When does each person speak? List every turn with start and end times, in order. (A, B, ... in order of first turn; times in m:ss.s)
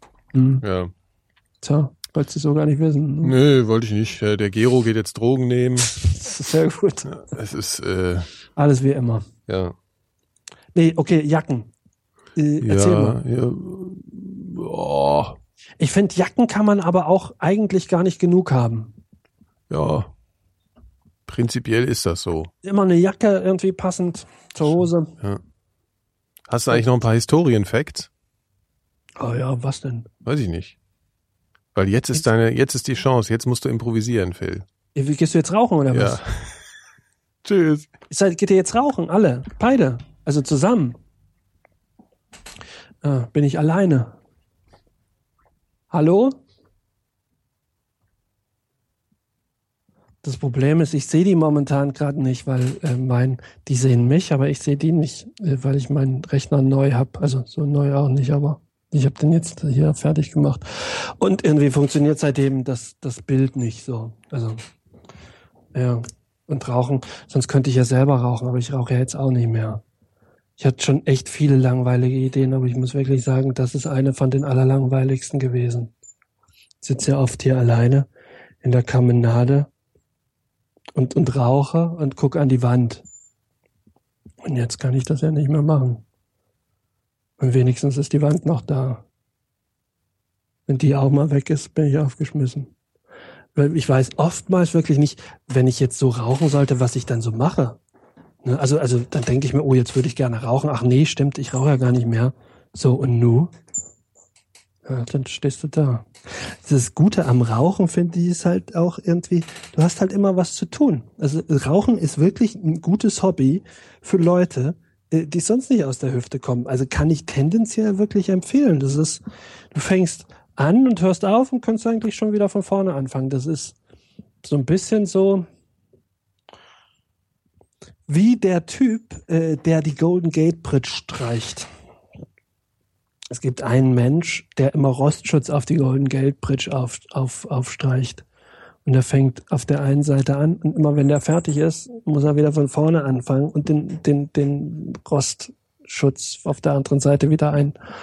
0:00.3-0:00.6 A
0:00.6-0:00.9 B
0:01.6-0:03.4 A
0:03.2-0:05.9 B
0:05.9-0:07.2 A
0:07.1-0:08.3 B
0:08.6-0:09.3 A
0:09.5-0:09.7 B
0:10.7-0:11.7 A
0:12.4-0:13.2 A
0:12.6-0:15.4 B
0:15.8-0:18.9 A
0:19.7-0:20.1 B
0:21.3-0:22.5 B
0:22.6-0:25.1 A
0:24.6-0:25.4 B
0:26.5-0:28.1 B
0:29.2-0:30.1 A
0:30.2-0:30.8 B
0:31.7-0:34.6 B
0:34.9-0:36.2 A
0:35.9-0:36.6 B
0:37.4-0:37.9 B
0:38.1-0:41.0 A
0:43.0-0:44.2 A
0:45.9-0:46.4 A
0:50.2-1:04.6 A
1:05.7-1:09.8 A
1:10.6-1:15.9 A
1:16.8-1:18.1 A
1:18.6-1:19.7 A
1:21.0-1:23.0 A
1:24.4-1:26.0 A
1:27.4-1:29.0 A
1:30.7-1:32.7 A
1:33.5-1:37.8 A
1:38.4-1:43.5 A
1:44.8-2:03.8 A
2:04.4-2:05.5 A
2:08.1-2:11.7 A
2:13.3-2:18.2 A
2:18.8-2:27.8 A